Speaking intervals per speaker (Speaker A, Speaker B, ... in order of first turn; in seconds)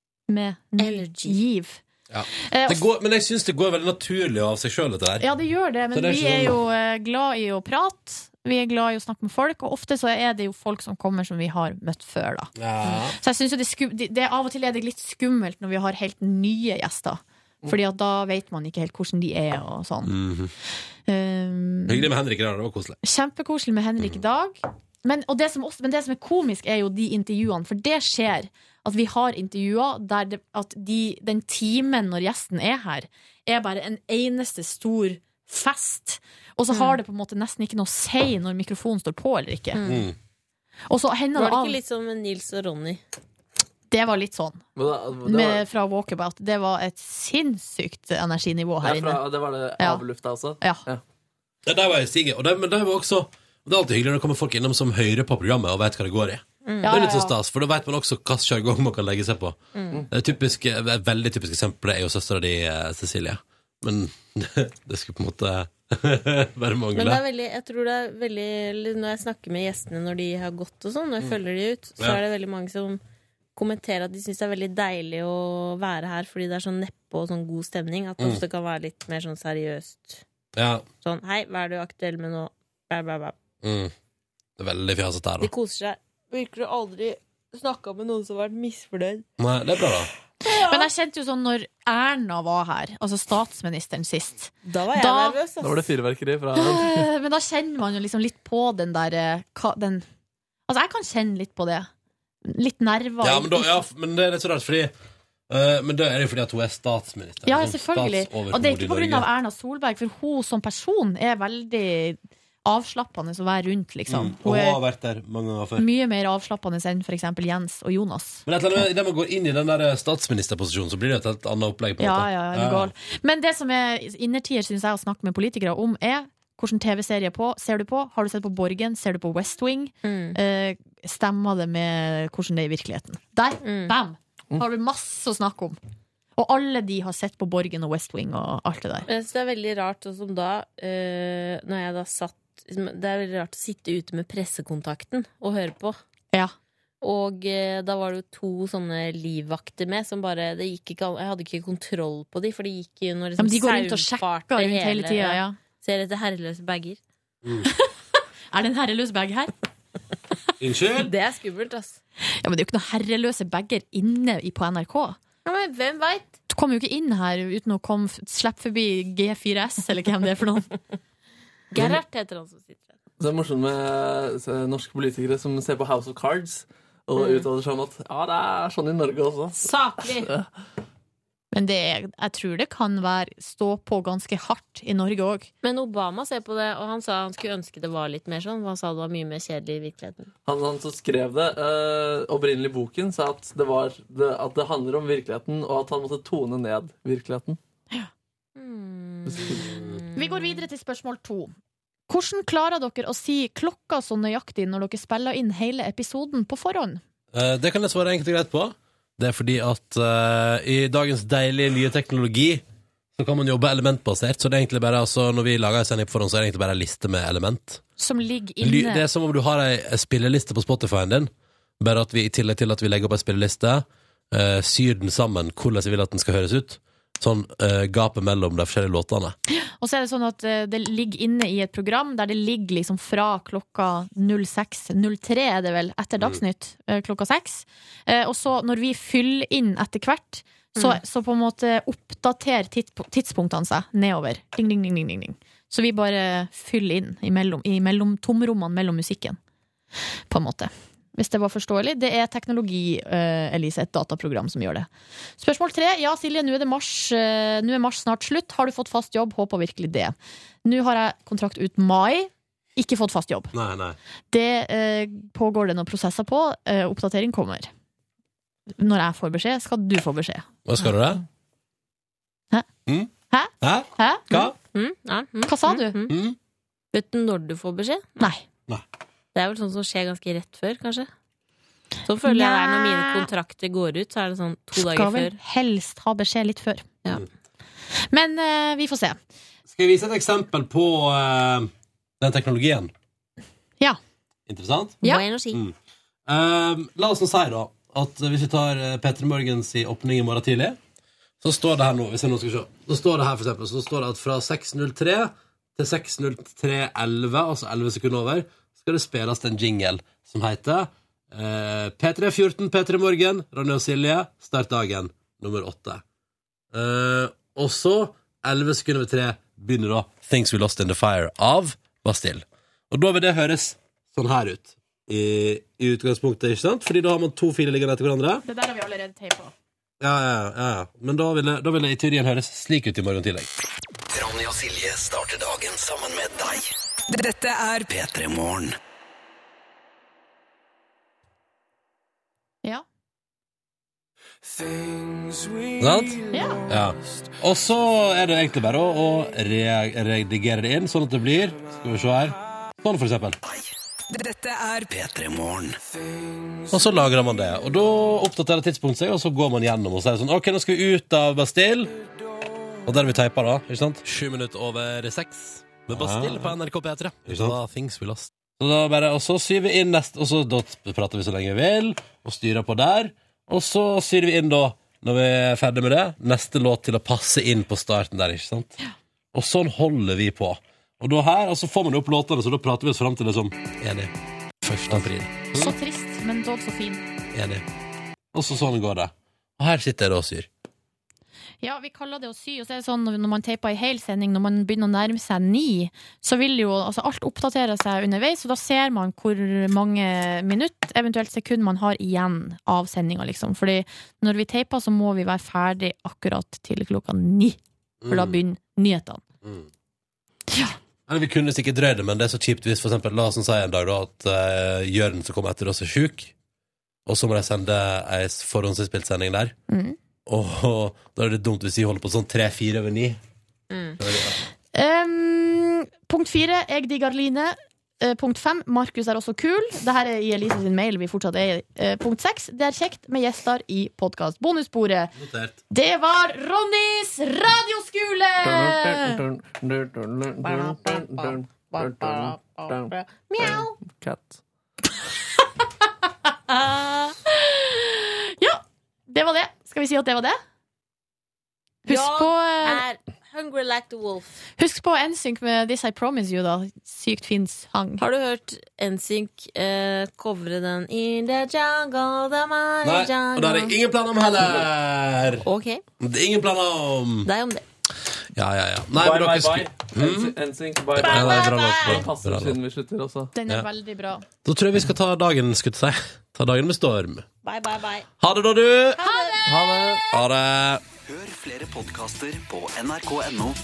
Speaker A: 0.3-1.8, 2.4-2.8, 5.2-12.5, 13.1-20.1, 21.1-22.1, 23.0-39.8, 40.9-41.8, 43.9-44.6, 45.2-49.2, 49.8-50.0, 50.6-50.8, 56.8-57.3, 90.5-95.4, 96.5-100.0, 100.7-101.9, 102.4-103.7, 107.4-114.8, 115.8-118.5, 122.0-135.8, 136.4-139.1, 153.4-155.6, 157.7-157.9, 158.5-159.5, 162.4-165.2, 166.5-170.7, 181.5-185.5, 200.2-201.5, 202.1-207.0, 218.0-219.0, 229.5-249.4, 250.3-263.5, 264.3-267.7, 268.8-270.9, 273.3-274.5, 275.5-276.0, 282.2-283.3, 284.8-286.9, 288.1-289.2, 328.4-329.5, 346.3-346.6, 385.5-387.0, 391.6-409.2, 410.5-410.8, 419.7-420.0, 424.7-435.1, 435.7-439.2, 447.2-450.4, 451.8-452.8, 454.6-458.0, 473.3-474.2, 479.0-480.1
Speaker B: 0.8-1.4, 36.7-37.0, 39.7-40.1, 41.3-43.0, 56.6-57.0, 59.7-60.0, 66.9-73.0, 73.5-80.2, 81.0-83.3, 85.4-89.2, 90.4-90.9, 94.6-95.8, 130.0-130.4, 133.6-134.0, 139.1-146.0, 147.0-157.0, 160.9-162.0, 165.4-166.3, 171.7-172.9, 177.2-177.5, 179.5-180.3, 185.6-190.3, 198.6-200.6, 240.8-241.0, 274.6-276.1, 276.9-278.3, 279.3-281.1, 282.0-285.4, 295.0-295.6, 423.7-424.0, 440.4-443.8, 446.5-447.1, 451.8-454.4, 458.0-463.8, 465.4-465.8, 467.2-467.6, 471.0-472.1, 477.4-478.1, 479.0-479.4
Speaker C: 2.1-5.3, 5.9-6.6, 12.6-13.2, 20.0-20.5, 21.9-23.0, 39.9-40.1, 51.6-59.6, 60.1-67.2, 80.5-80.9, 83.6-83.9, 84.6-85.5, 89.4-90.1, 103.2-104.9, 105.5-109.3, 114.1-115.9, 118.5-122.9, 160.6-161.1, 207.3-212.6, 213.2-217.8, 218.6-229.3, 263.5-264.0, 270.6-271.2, 273.6-274.5, 276.1-276.4, 289.7-292.9, 294.5-295.0, 296.3-300.8, 301.4-316.0, 316.7-328.4, 330.0-333.5, 345.8-353.4, 356.7-361.9, 362.8-378.8, 379.3-384.1, 384.6-385.7, 387.3-387.6, 388.3-390.5, 408.0-408.4, 411.1-416.3, 417.1-419.5, 420.2-423.2, 424.0-424.4, 435.1-435.6, 462.8-465.4, 466.0-467.3, 468.4-470.4, 470.9-472.6, 474.4-477.2, 478.2-479.0, 480.1-480.8
Speaker D: 44.8-45.6, 48.8-51.0, 95.6-97.0, 173.2-179.6, 190.4-197.6, 199.3-199.6, 438.4-444.4, 468.9-473.3, 479.4-480.0
Speaker E: 334.1-338.7, 354.1-355.7, 481.2-483.1